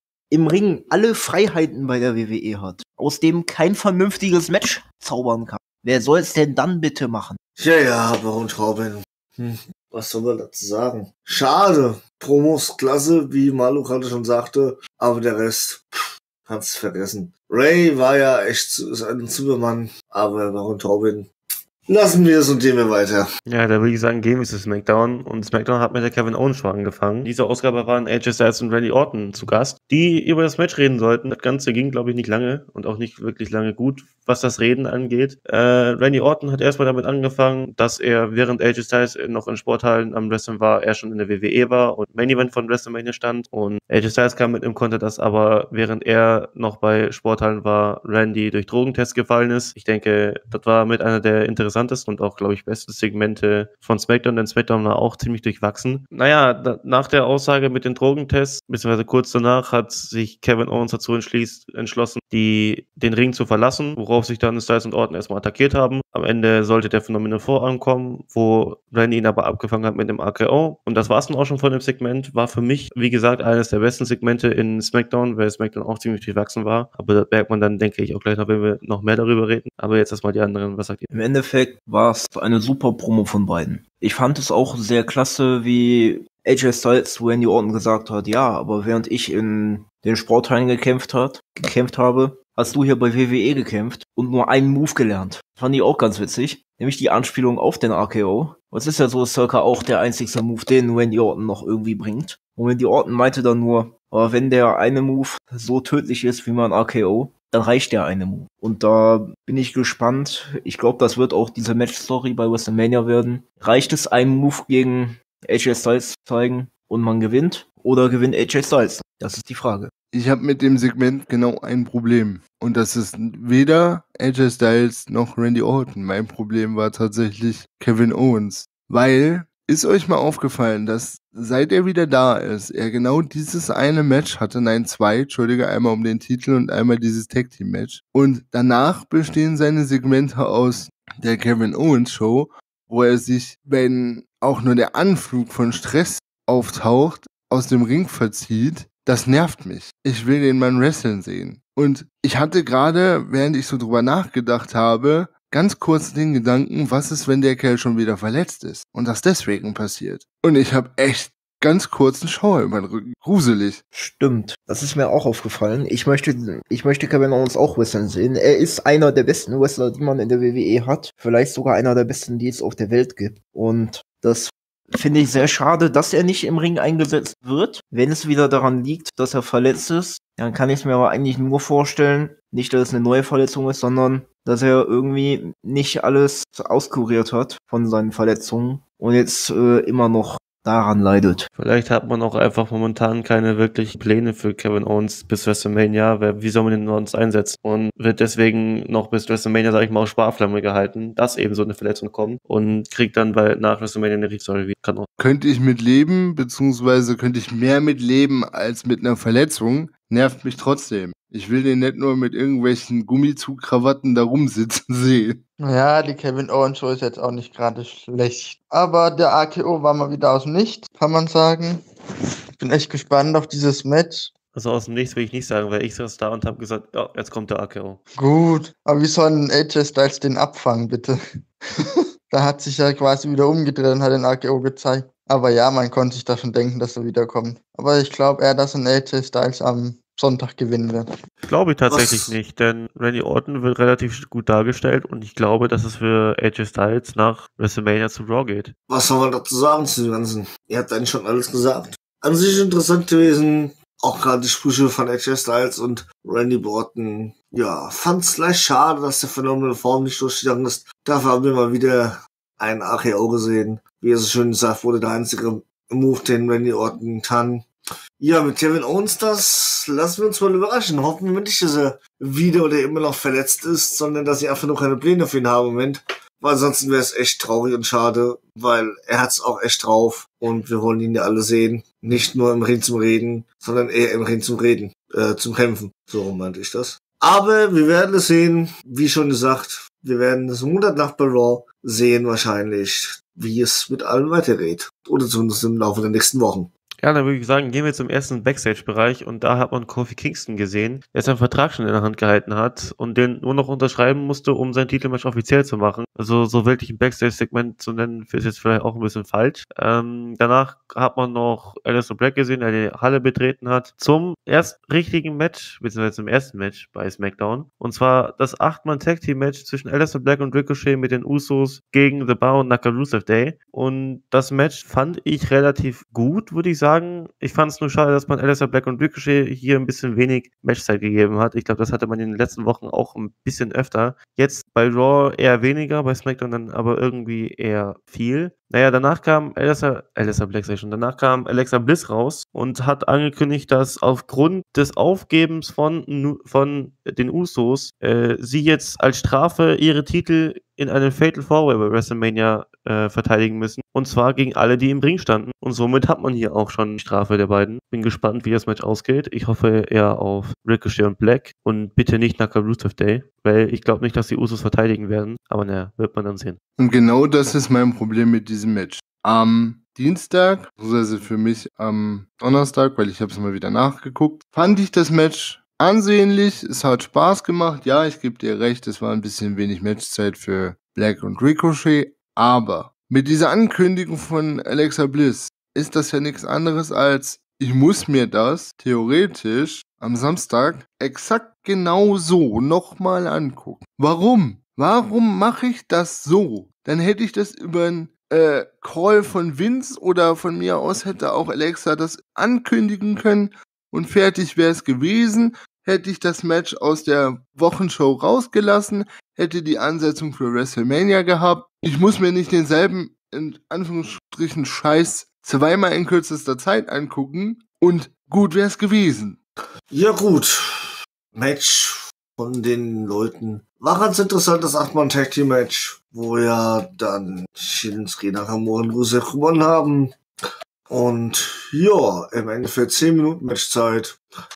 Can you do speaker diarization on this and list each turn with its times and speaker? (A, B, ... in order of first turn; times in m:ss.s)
0:00.3-0:07.4 A
0:07.6-0:15.9 B
0:16.5-0:21.3 B
0:21.9-0:23.3 B
0:23.5-1:21.1 C
1:21.1-1:59.9 A
2:00.1-2:43.8 D
2:43.9-3:11.5 A
3:11.6-3:25.1 C
3:25.2-3:35.4 D
3:35.6-3:41.8 E
3:42.6-3:44.3 E
3:44.5-3:48.0 C
3:48.2-3:51.2 E
3:52.3-4:01.1 E
4:01.5-4:08.7 C
4:01.9-4:02.3 B
4:08.9-4:27.7 B
4:28.2-4:56.7 B
4:57.0-6:06.6 C
6:06.8-6:59.4 D
6:59.9-7:00.6 B
7:01.3-7:10.2 B
7:10.9-7:14.2 B